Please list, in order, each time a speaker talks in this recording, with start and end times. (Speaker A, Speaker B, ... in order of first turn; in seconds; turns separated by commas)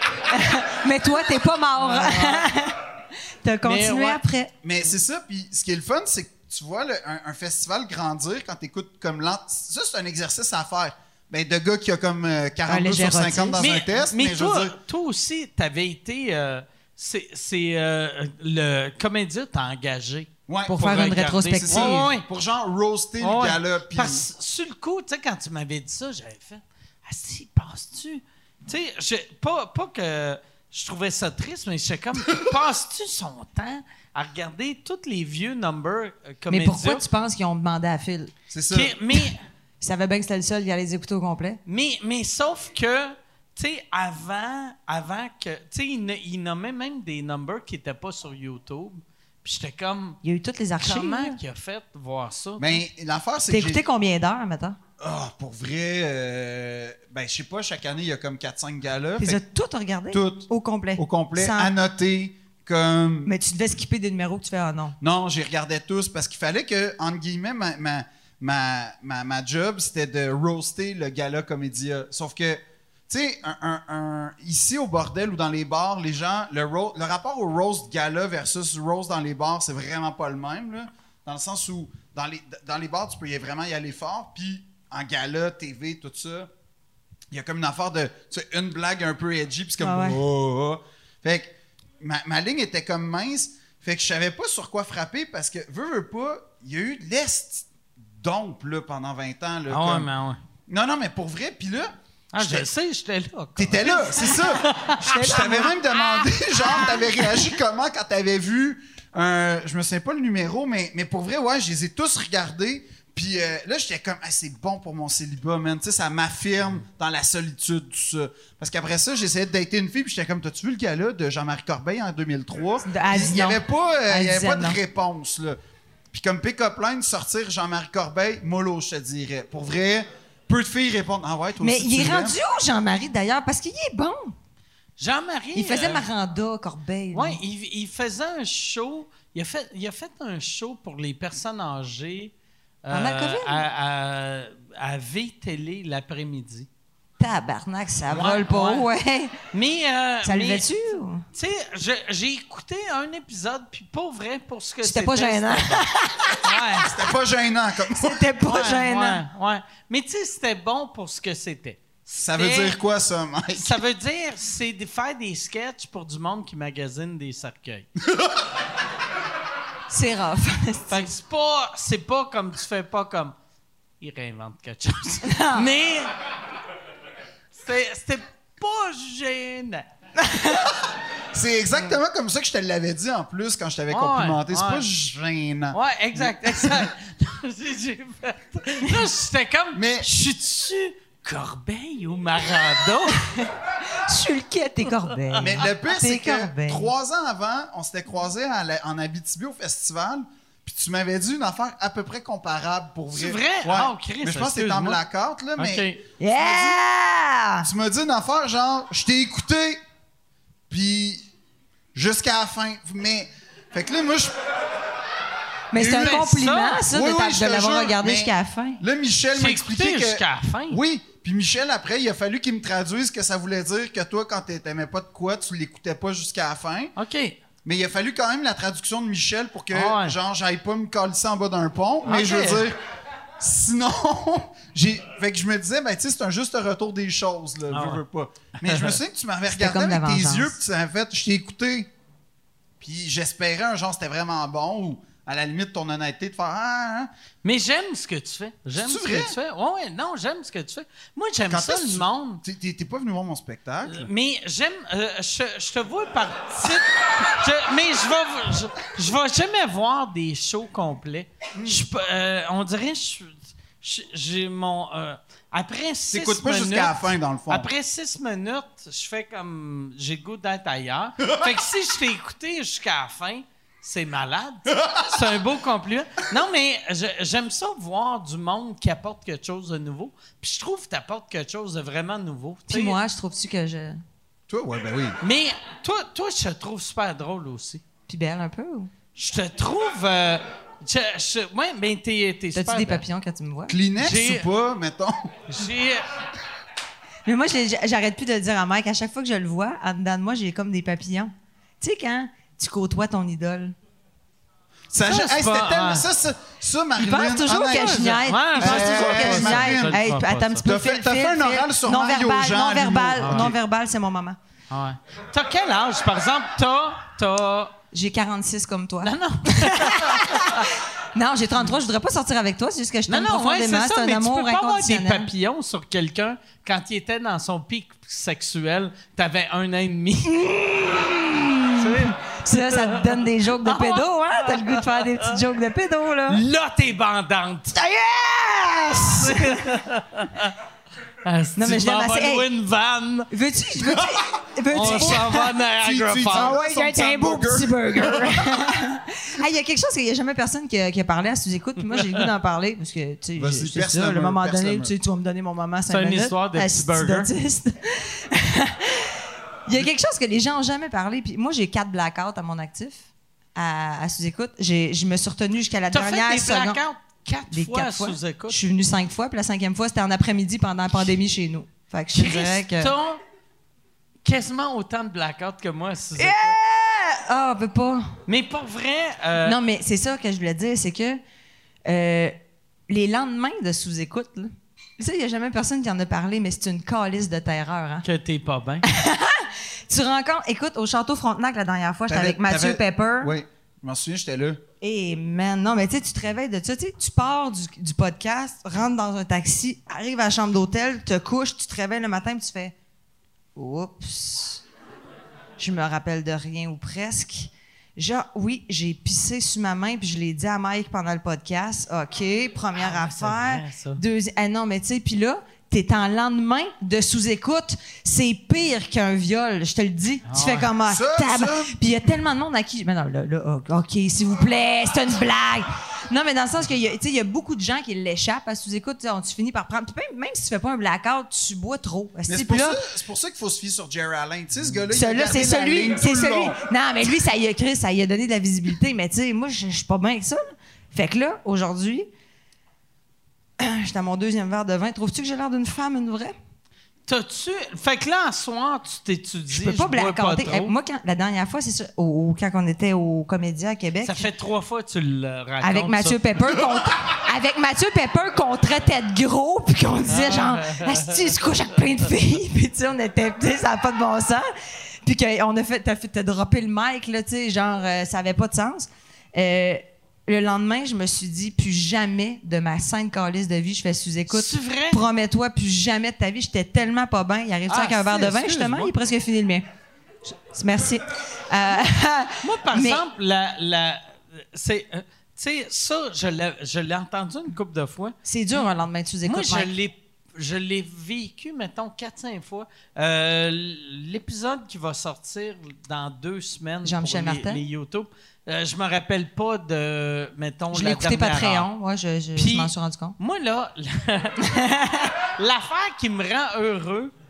Speaker A: 0.3-2.8, Speaker B: 1.7-2.5, Speaker A: 3.4-4.5, Speaker B: 3.6-4.2, Speaker C: 4.6-14.8, Speaker A: 12.7-13.6, Speaker B: 13.6-22.3, Speaker C: 20.5-24.2, Speaker A: 20.7-22.1, Speaker B: 23.2-37.0, Speaker A: 36.5-38.3, Speaker C: 38.5-39.0, Speaker B: 38.7-39.4, Speaker A: 39.8-41.6, Speaker B: 41.7-50.2, Speaker A: 50.2-51.4, Speaker B: 50.8-52.8, Speaker C: 52.6-53.8, Speaker A: 53.5-54.8, Speaker C: 55.0-59.4, Speaker A: 59.2-61.7, Speaker C: 60.1-63.3, Speaker A: 63.3-65.0, Speaker C: 65.0-86.5, Speaker C: 87.3-100.1, Speaker A: 89.8-90.2, Speaker B: 99.7-100.4, Speaker C: 100.7-102.7, Speaker B: 102.3-105.4, Speaker C: 103.6-125.6, Speaker A: 103.9-105.8, Speaker A: 106.6-107.4, Speaker A: 122.8-124.8, Speaker C: 126.1-132.4, Speaker A: 131.6-134.3, Speaker B: 135.0-136.1, Speaker A: 135.6-137.4, Speaker B: 137.1-142.3, Speaker B: 142.9-146.7, Speaker A: 142.9-143.6, Speaker A: 147.2-149.4, Speaker B: 148.1-148.9, Speaker B: 149.5-150.7, Speaker A: 150.2-151.2, Speaker B: 151.3-155.8, Speaker A: 154.8-156.7, Speaker B: 156.4-156.9, Speaker C: 156.8-158.3, Speaker A: 158.0-159.2, Speaker B: 158.5-162.8, Speaker C: 162.2-163.8, Speaker B: 163.6-167.9, Speaker A: 169.9-171.1, Speaker B: 170.9-173.3, Speaker B: 174.0-176.1, Speaker A: 175.2-175.7, Speaker B: 177.5-179.9, Speaker A: 180.2-180.7, Speaker C: 181.3-186.9, Speaker B: 183.9-184.9, Speaker B: 185.7-193.2, Speaker C: 189.7-190.1, Speaker A: 194.0-196.9, Speaker C: 195.4-206.8, Speaker B: 203.1-205.0, Speaker B: 205.6-206.0, Speaker A: 206.2-207.7, Speaker C: 207.6-209.8, Speaker C: 210.7-211.3, Speaker C: 211.9-214.4, Speaker A: 215.7-218.8, Speaker B: 215.8-216.8, Speaker C: 215.8-226.9, Speaker B: 219.3-220.8, Speaker B: 227.0-227.4, Speaker C: 227.7-232.8, Speaker B: 229.7-230.2, Speaker B: 232.1-232.7, Speaker C: 233.4-241.9, Speaker B: 237.7-238.0, Speaker B: 238.6-239.0, Speaker A: 239.5-240.5, Speaker C: 242.8-247.1, Speaker B: 247.4-252.4, Speaker C: 248.8-249.3, Speaker C: 251.5-254.1, Speaker B: 253.9-283.0, Speaker C: 261.6-261.8, Speaker C: 266.1-267.7, Speaker A: 282.7-284.0, Speaker C: 284.5-285.2, Speaker B: 285.2-287.8, Speaker A: 288.1-288.9, Speaker B: 289.2-293.0, Speaker A: 292.6-293.8, Speaker C: 293.7-295.3, Speaker B: 294.0-294.5, Speaker B: 295.5-296.0, Speaker A: 297.3-303.8, Speaker C: 304.9-310.0, Speaker B: 305.0-306.1, Speaker A: 307.0-314.4, Speaker B: 307.6-310.6, Speaker C: 310.6-313.6, Speaker B: 313.2-313.5, Speaker B: 314.7-317.8, Speaker A: 317.9-325.3, Speaker B: 319.0-320.7, Speaker B: 323.1-330.4, Speaker A: 330.3-336.4, Speaker B: 331.7-335.4, Speaker B: 336.3-337.8, Speaker A: 337.7-339.8, Speaker B: 339.1-340.5, Speaker B: 341.2-343.3, Speaker A: 341.6-342.5, Speaker A: 343.3-345.5, Speaker C: 343.9-344.1, Speaker B: 344.7-346.6, Speaker C: 344.8-348.5, Speaker A: 346.3-363.0, Speaker C: 353.4-354.9, Speaker B: 355.9-357.3, Speaker A: 363.6-366.8, Speaker B: 365.9-368.6, Speaker A: 367.5-372.9, Speaker B: 372.1-373.2, Speaker B: 374.2-376.6, Speaker A: 376.2-378.1, Speaker B: 378.3-379.6, Speaker A: 379.4-381.2, Speaker A: 381.9-382.4, Speaker A: 382.9-388.1, Speaker B: 388.0-388.9, Speaker A: 388.9-393.3, Speaker C: 392.1-394.6, Speaker A: 394.8-402.8, Speaker A: 403.6-404.6, Speaker A: 405.6-432.8, Speaker B: 412.8-414.0, Speaker B: 420.3-420.7, Speaker C: 420.9-421.7, Speaker C: 432.3-436.6, Speaker A: 434.9-442.1, Speaker A: 443.6-446.4, Speaker B: 447.1-450.7, Speaker A: 449.5-454.3, Speaker B: 454.0-456.5, Speaker A: 455.6-464.5, Speaker B: 460.1-461.2, Speaker A: 465.0-479.6, Speaker B: 474.3-475.0, Speaker B: 477.7-478.9, Speaker A: 480.5-483.0, Speaker B: 482.4-488.2, Speaker A: 488.2-489.7, Speaker B: 489.3-501.7, Speaker A: 496.9-497.6, Speaker A: 500.7-503.2, Speaker B: 502.4-504.4, Speaker A: 504.5-505.1, Speaker B: 505.4-507.1